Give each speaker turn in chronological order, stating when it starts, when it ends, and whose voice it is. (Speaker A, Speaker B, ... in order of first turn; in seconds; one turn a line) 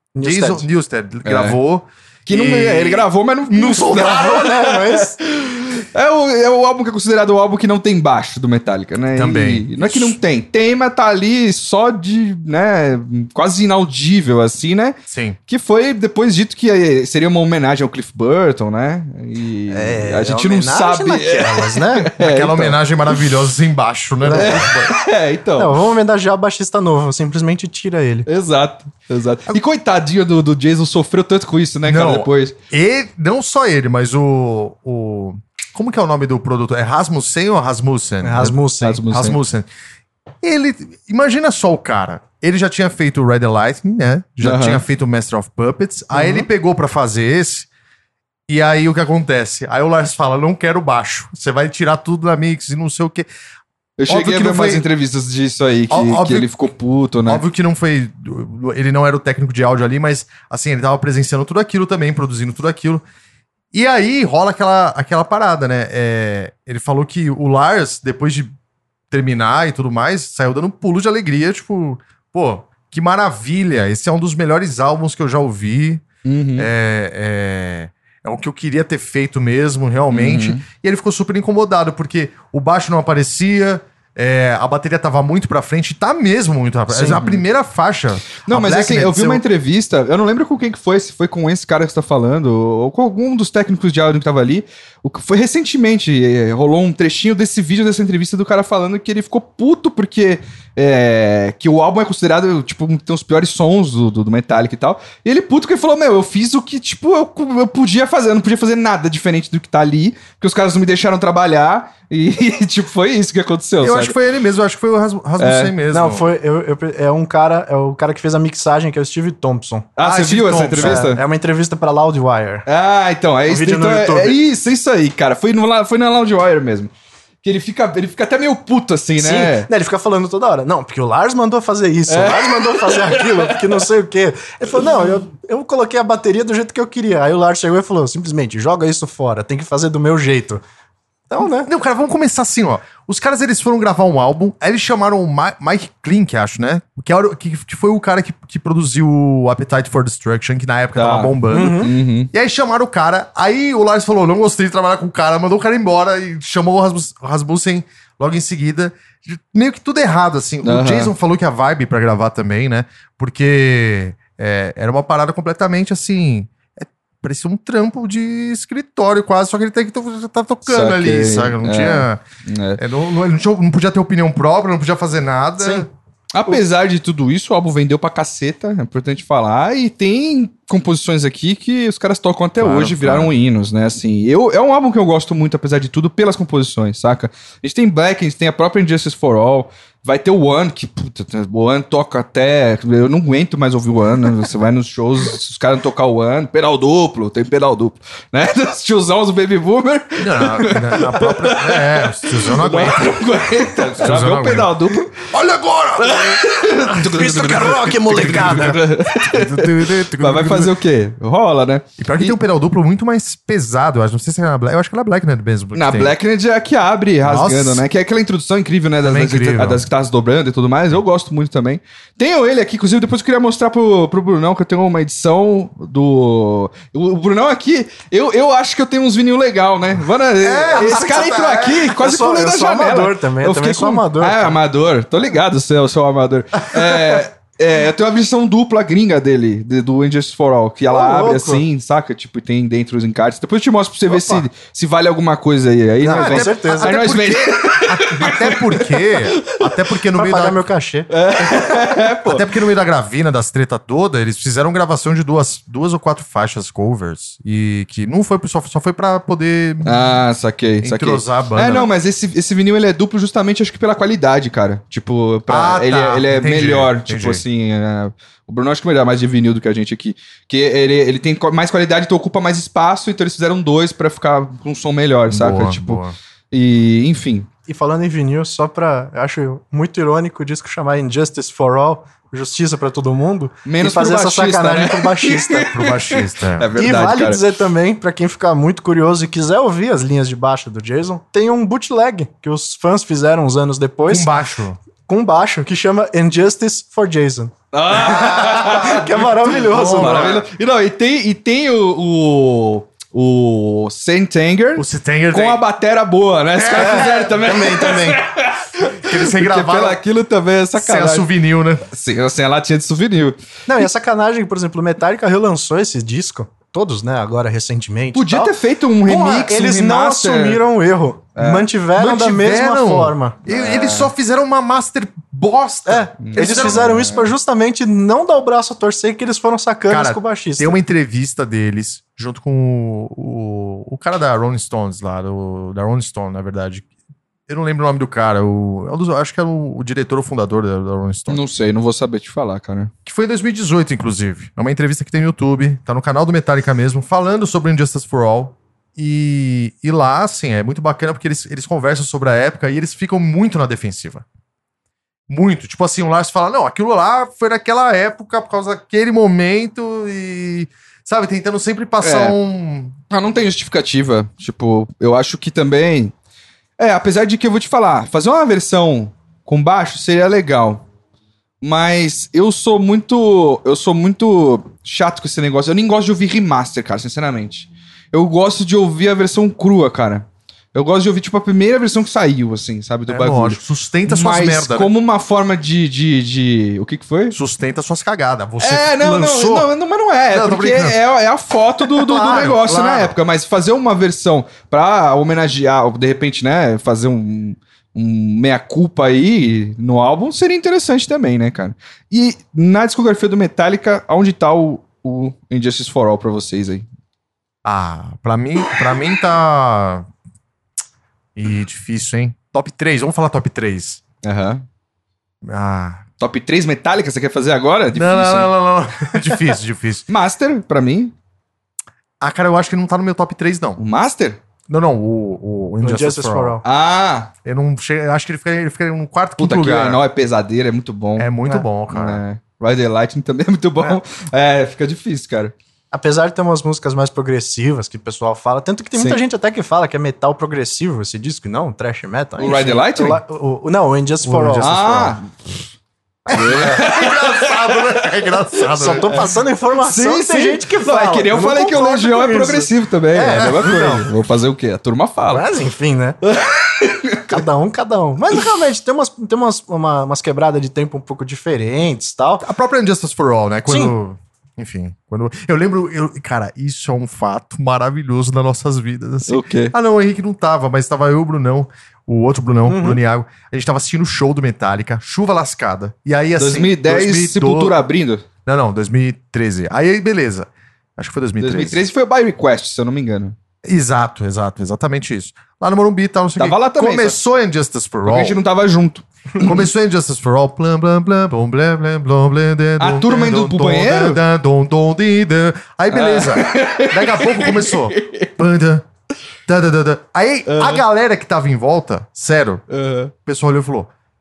Speaker A: 0.1-0.7
Speaker B: 0.2-4.5
Speaker C: 1.2-1.6
Speaker C: 2.3-23.2
Speaker A: 3.8-5.2
Speaker B: 9.2-10.2
Speaker B: 15.1-15.4
Speaker A: 19.7-22.1
Speaker B: 22.2-24.9
Speaker A: 24.2-24.6
Speaker C: 24.3-25.8
Speaker A: 25.6-28.3
Speaker C: 28.3-32.5
Speaker B: 31.8-39.7
Speaker A: 38.2-39.0
Speaker C: 38.8-39.4
Speaker B: 40.4-47.7
Speaker C: 44.4-44.8
Speaker A: 46.1-46.5
Speaker B: 48.5-53.3
Speaker C: 54.0-57.4
Speaker B: 54.1-54.9
Speaker B: 55.9-56.5
Speaker B: 57.3-63.0
Speaker B: 63.7-68.5
Speaker B: 69.1-76.0
Speaker C: 76.2-76.7
Speaker B: 76.6-89.4
Speaker C: 80.1-80.6
Speaker A: 86.9-87.2
Speaker C: 87.1-87.4
Speaker C: 88.4-114.2
Speaker B: 113.8-116.3
Speaker C: 115.4-115.8
Speaker A: 115.9-119.9
Speaker C: 120.0-121.2
Speaker B: 120.0-121.1
Speaker A: 120.8-122.7
Speaker C: 122.7-126.9
Speaker A: 123.5-124.4
Speaker C: 127.4-129.7
Speaker A: 129.2-140.6
Speaker C: 132.1-133.8
Speaker A: 141.3-141.7
Speaker B: 141.4-172.2
Speaker C: 150.9-152.3
Speaker A: 151.5-151.9
Speaker C: 160.6-161.1
Speaker C: 170.7-172.8
Speaker B: 172.8-175.9
Speaker A: 175.6-175.9
Speaker C: 176.3-205.3
Speaker B: 182.6-183.3
Speaker B: 200.2-203.2
Speaker B: 203.9-210.8
Speaker C: 206.0-212.4
Speaker A: 207.0-208.9
Speaker B: 212.0-216.2
Speaker C: 215.7-249.7
Speaker B: 217.2-217.8
Speaker B: 219.0-219.8
Speaker B: 230.4-231.9
Speaker A: 232.0-234.6
Speaker A: 240.9-241.6
Speaker B: 244.2-244.4
Speaker A: 246.0-247.0
Speaker B: 246.1-250.6
Speaker A: 250.1-251.1
Speaker C: 251.1-252.5
Speaker B: 252.2-260.2
Speaker C: 259.9-277.5
Speaker B: 260.8-261.9
Speaker B: 265.5-267.4
Speaker B: 275.3-276.1
Speaker A: 277.7-285.7
Speaker C: 283.6-287.5
Speaker B: 285.6-286.7
Speaker A: 286.8-294.3
Speaker B: 294.1-294.8
Speaker A: 295.1-300.4
Speaker C: 297.7-311.3
Speaker B: 298.1-300.5
Speaker B: 304.8-305.6
Speaker B: 306.6-307.3
Speaker A: 306.7-308.2
Speaker B: 309.0-310.0
Speaker B: 310.8-311.9
Speaker C: 311.9-313.9
Speaker A: 313.7-323.4
Speaker C: 318.1-320.6
Speaker C: 321.4-321.7
Speaker B: 322.0-326.9
Speaker C: 323.5-324.1
Speaker A: 325.9-330.8
Speaker C: 326.2-327.3
Speaker B: 329.9-336.9
Speaker B: 337.5-341.4
Speaker C: 341.3-342.9
Speaker B: 343.1-354.2
Speaker B: 355.3-363.0
Speaker C: 362.0-362.4
Speaker C: 363.1-366.1
Speaker C: 366.8-370.8
Speaker C: 371.6-387.4
Speaker B: 383.1-384.9
Speaker B: 387.3-389.7
Speaker C: 388.6-406.9
Speaker B: 390.3-391.0
Speaker B: 391.9-393.1
Speaker B: 407.6-410.1
Speaker B: 411.4-414.0
Speaker C: 414.2-414.6
Speaker B: 415.4-416.1
Speaker C: 416.2-418.5
Speaker B: 417.9-420.1
Speaker C: 420.1-421.1
Speaker B: 422.2-423.8
Speaker C: 423.8-424.4
Speaker B: 424.7-426.6
Speaker A: 425.8-426.6
Speaker C: 426.6-427.3
Speaker B: 427.4-430.0
Speaker C: 429.4-431.3
Speaker B: 431.2-432.2
Speaker C: 431.9-435.5
Speaker A: 435.9-444.8
Speaker C: 439.0-439.2
Speaker C: 442.4-443.2
Speaker B: 444.2-445.1
Speaker C: 444.6-445.3
Speaker B: 446.3-449.3
Speaker A: 446.3-446.7
Speaker C: 446.3-455.5
Speaker A: 448.7-454.0
Speaker B: 453.4-454.1
Speaker A: 455.3-456.2
Speaker C: 456.2-457.4
Speaker A: 457.3-462.5
Speaker B: 462.4-477.8
Speaker A: 463.7-463.9
Speaker C: 469.3-469.7
Speaker A: 472.7-473.0
Speaker C: 476.4-478.2
Speaker B: 478.5-481.8
Speaker C: 481.4-483.4
Speaker B: 483.6-488.4
Speaker C: 486.4-487.2
Speaker C: 488.1-489.7
Speaker B: 489.4-498.9
Speaker C: 492.8-494.2
Speaker C: 495.9-498.3
Speaker B: 499.5-502.6
Speaker C: 500.5-500.8
Speaker C: 502.7-503.1
Speaker B: 503.2-503.9